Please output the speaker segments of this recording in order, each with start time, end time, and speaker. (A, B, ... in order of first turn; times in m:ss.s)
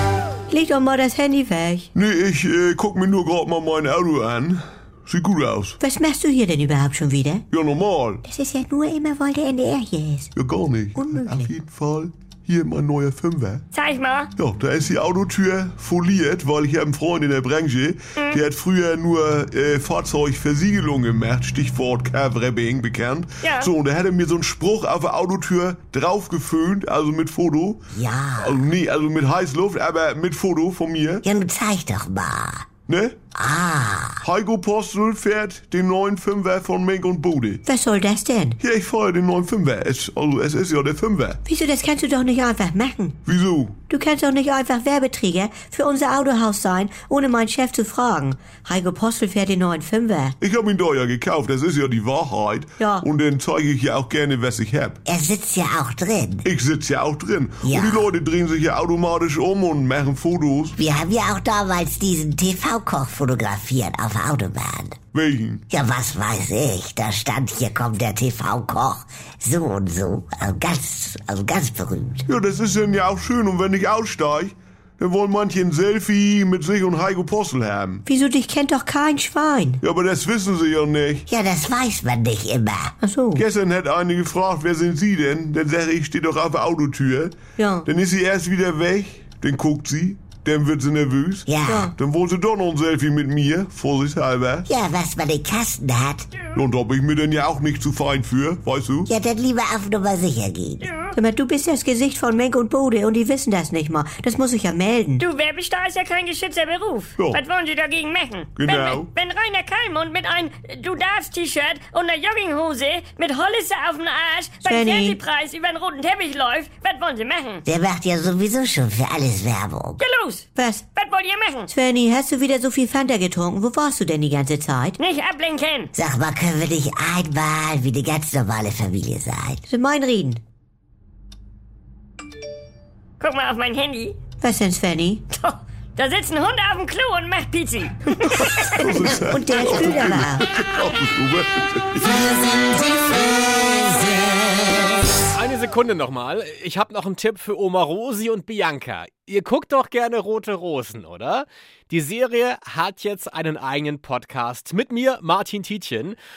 0:00.5-0:01.9 A
0:01.9-0:05.8 B
0:05.8-0:07.4 A
0:07.5-0:08.2 B
0:08.2-0:10.3 A
0:10.4-0:13.6 B
0:10.9-0:11.5 A
0:13.7-0:14.3 C
0:14.4-0:31.2 B
0:18.2-0:18.4 C
0:23.4-0:23.7 C
0:27.9-0:28.6 D
0:31.2-0:32.6 D
0:32.9-0:33.2 B
0:33.3-0:34.2 D
0:34.2-0:37.6 B
0:37.6-0:38.6 A
0:38.6-0:41.4 B
0:41.4-0:43.2 A
0:43.2-0:43.8 B
0:43.9-0:50.4 A
0:50.4-0:55.0 B
0:52.8-0:53.0 A
0:55.0-0:56.5 D
0:56.4-1:00.8 B
0:57.6-0:58.1 D
1:00.8-1:05.0 D
1:05.1-1:05.6 B
1:05.7-1:12.2 D
1:12.3-1:18.0 B
1:18.0-1:19.8 A
1:19.8-1:21.2 B
1:21.3-1:22.9 D
1:23.0-1:23.4 A
1:23.3-1:34.7 B
1:27.6-1:27.9 A
1:31.5-1:31.9 D
1:31.6-1:31.9 A
1:34.7-1:36.3 D
1:36.5-1:39.1 B
1:39.1-1:40.9 D
1:40.8-1:41.2 C
1:41.1-1:45.2 A
1:45.2-1:57.6 C
1:47.2-1:47.4 B
1:48.5-1:49.1 B
1:54.6-1:55.2 A
1:57.6-2:00.0 D
2:00.0-2:01.7 C
2:00.5-2:00.8 A
2:01.7-2:05.0 A
2:05.0-2:05.9 C
2:05.9-2:09.6 D
2:09.7-2:10.4 A
2:13.2-2:14.2 C
2:14.4-2:15.2 A
2:15.3-2:19.0 C
2:18.4-2:22.2 B
2:19.0-2:20.4 A
2:25.2-2:36.2 E